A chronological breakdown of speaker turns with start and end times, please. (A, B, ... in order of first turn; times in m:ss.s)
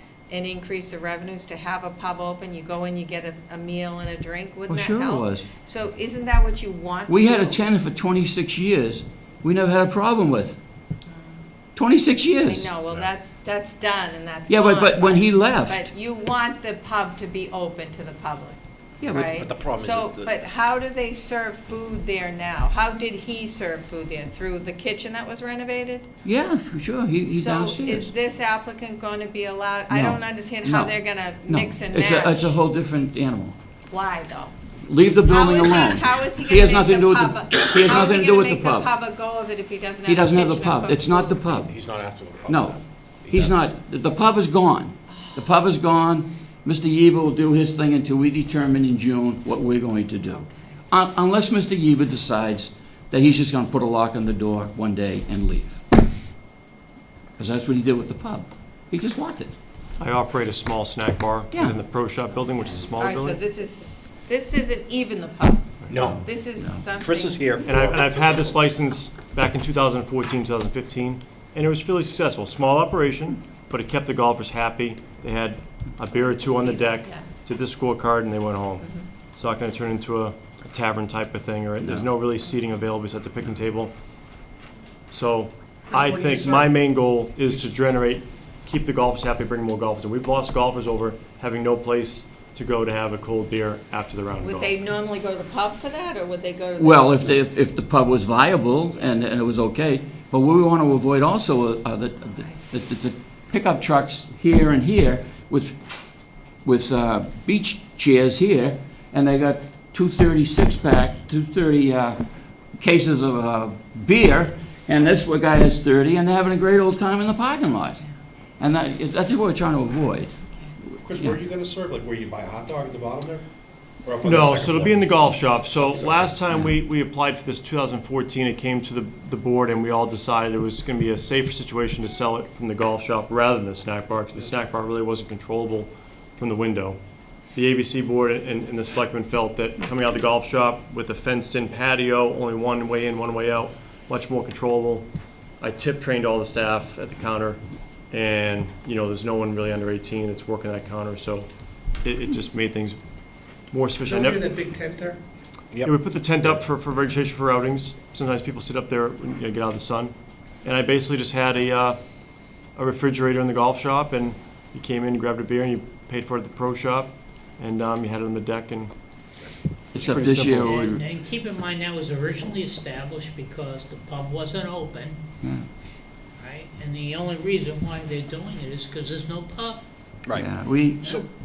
0:00.3-0:07.6 A
0:04.7-0:05.5 B
0:07.1-0:10.6 B
0:11.1-0:11.4 A
0:11.7-0:12.7 B
0:12.5-0:26.1 A
0:14.5-0:15.9 B
0:19.0-0:19.3 B
0:19.2-0:20.4 C
0:26.2-0:28.1 B
0:27.3-0:32.6 A
0:29.9-0:33.6 B
0:33.9-0:34.5 A
0:34.8-0:38.9 B
0:35.3-0:41.4 A
0:40.0-0:41.8 B
0:41.6-0:43.6 C
0:42.4-0:55.8 B
0:45.1-0:45.5 A
0:50.3-0:50.7 A
0:57.4-0:59.5 B
1:00.0-1:03.4 D
1:02.9-1:07.6 A
1:05.9-1:06.3 C
1:05.9-1:06.8 B
1:07.0-1:08.6 C
1:07.6-1:23.9 D
1:16.1-1:17.3 A
1:18.8-1:19.1 A
1:21.8-1:22.1 B
1:25.1-1:34.7 D
1:25.9-1:26.7 E
1:34.4-1:37.4 A
1:36.8-1:45.8 B
1:42.3-1:42.7 A
1:46.6-1:52.2 B
1:52.8-1:58.0 B
1:58.6-2:00.3 B
2:01.0-2:03.4 E
2:04.0-2:05.2 E
2:04.2-2:17.0 D
2:05.8-2:06.2 E
2:17.5-2:25.0 D
2:25.6-2:33.0 D
2:33.7-2:34.5 D
2:34.0-2:35.2 E
2:35.7-2:36.6 C
2:35.8-2:42.0 D
2:42.7-2:48.9 D
2:49.9-2:51.0 B
2:50.0-2:50.8 D
2:50.1-2:55.2 F
2:56.4-2:59.8 F
3:00.2-3:00.5 C
3:00.3-3:01.2 B